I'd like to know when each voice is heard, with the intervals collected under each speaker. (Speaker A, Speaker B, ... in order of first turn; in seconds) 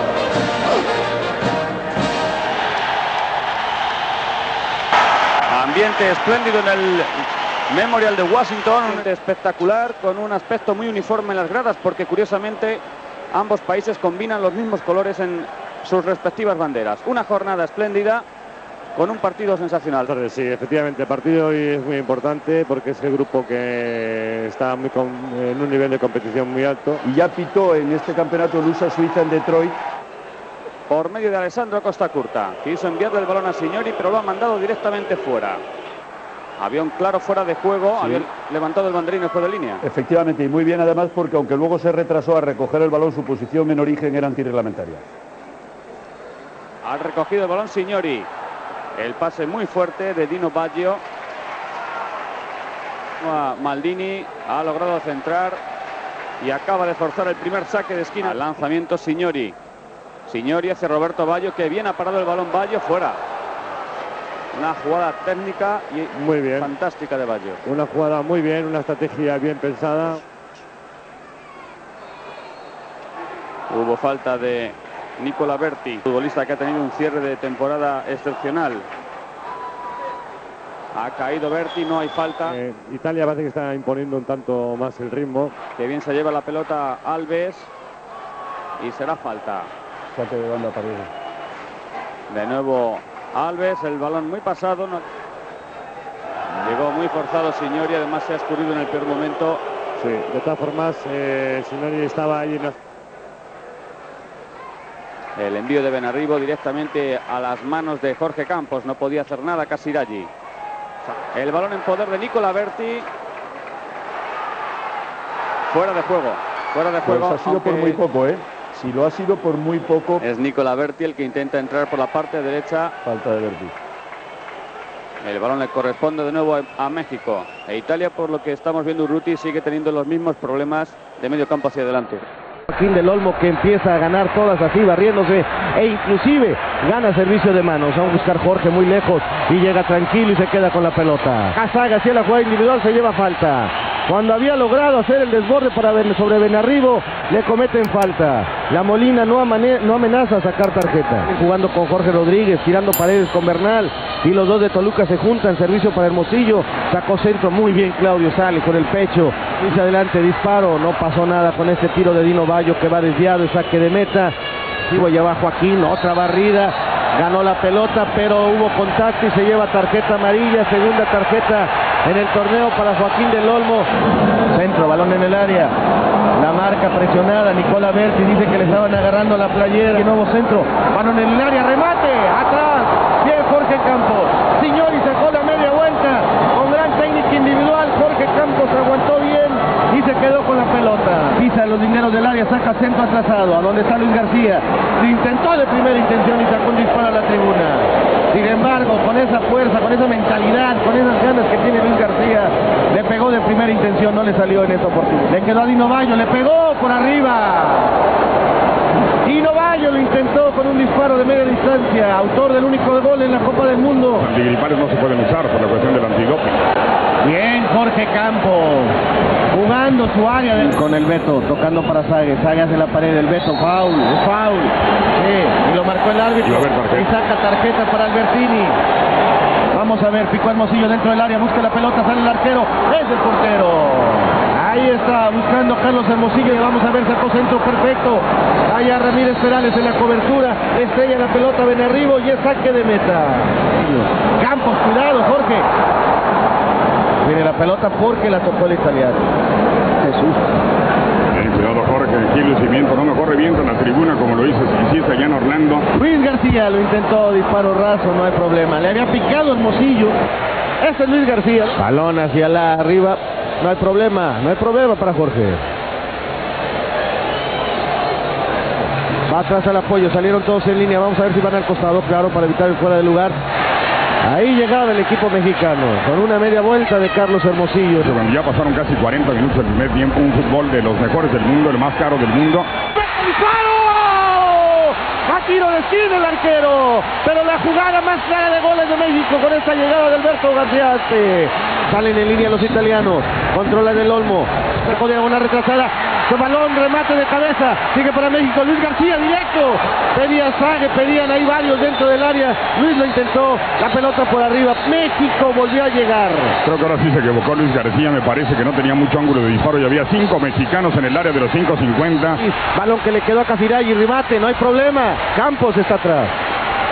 Speaker A: 5.5-7.1, 7.7-12.8, 13.3-18.2, 18.9-20.1, 30.9-35.6, 36.6-39.8, 46.8-48.3, 49.0-51.0, 53.2-55.6, 56.4-59.5, 60.3-63.2, 64.5-67.6, 73.7-78.9, 81.0-82.6, 85.8-87.7, 88.8-89.7, 92.3-95.0, 96.6-99.6, 105.4-110.3, 111.3-113.1, 115.7-118.0, 120.2-122.9, 125.2-132.2
Speaker B: 20.0-27.0, 66.1-66.7, 67.6-70.2, 82.5-85.5, 100.0-102.8
Speaker C: 27.0-29.8, 38.0-38.3, 39.8-45.1, 90.1-91.1, 117.0-120.2, 123.1-123.7
Speaker D: 132.7-164.3, 164.8-173.9, 174.5-175.7, 176.4-208.0, 209.2-214.3, 217.2-219.0, 219.5-228.8, 229.7-245.7, 247.2-249.3, 250.0-250.4, 255.9-260.1, 260.8-265.6, 269.3-273.4, 274.2-278.1, 283.0-306.6, 312.4-316.4
Speaker E: 214.2-216.6, 226.4-227.1, 251.3-255.8, 278.0-282.7, 306.6-312.4